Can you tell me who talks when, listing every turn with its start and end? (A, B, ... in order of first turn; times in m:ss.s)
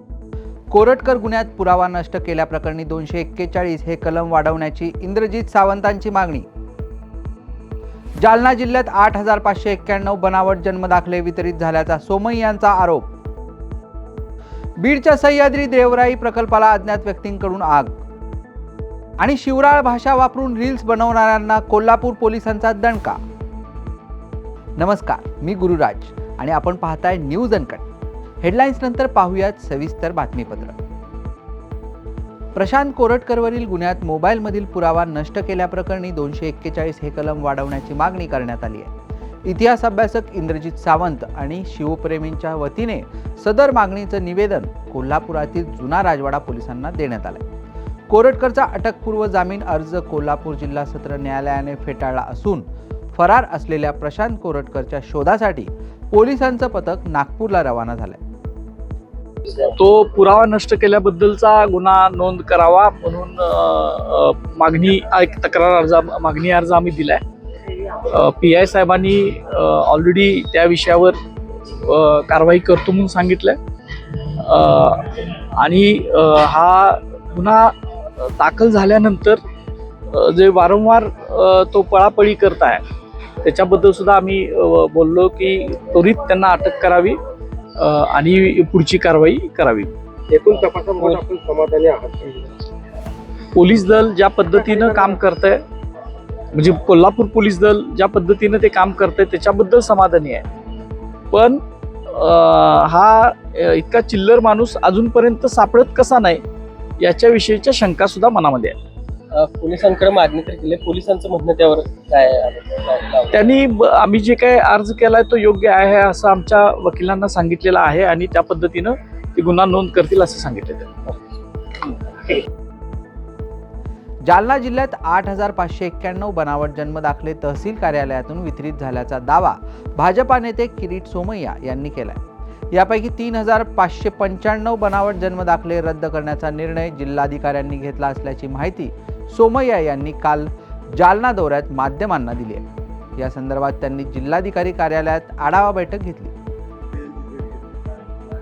0:00.7-0:06.5 A
0:08.2-0:13.1 A
0:14.8-0:18.0 A
0:19.2-0:23.2 A
0:24.8-0:27.9 A
0:28.4-0:30.8 A
0:32.6-0:38.9 A
0:39.5-0:47.4 A
0:48.1-0:58.2 A
0:59.6-1:07.2 B
1:08.1-1:11.2 B
1:11.8-1:13.6 B
1:14.4-1:19.4 B
1:20.1-1:22.8 B
1:23.4-1:27.2 B
1:27.8-1:29.9 B
1:30.3-1:32.5 C
1:33.6-1:35.6 B
1:34.6-1:35.2 C
1:36.5-1:40.5 B
1:41.3-1:46.4 B
1:47.0-1:48.8 B
1:49.5-1:53.3 C
1:53.3-2:00.9 B
2:04.3-2:12.2 A
2:12.7-2:22.6 A
2:23.2-2:26.4 A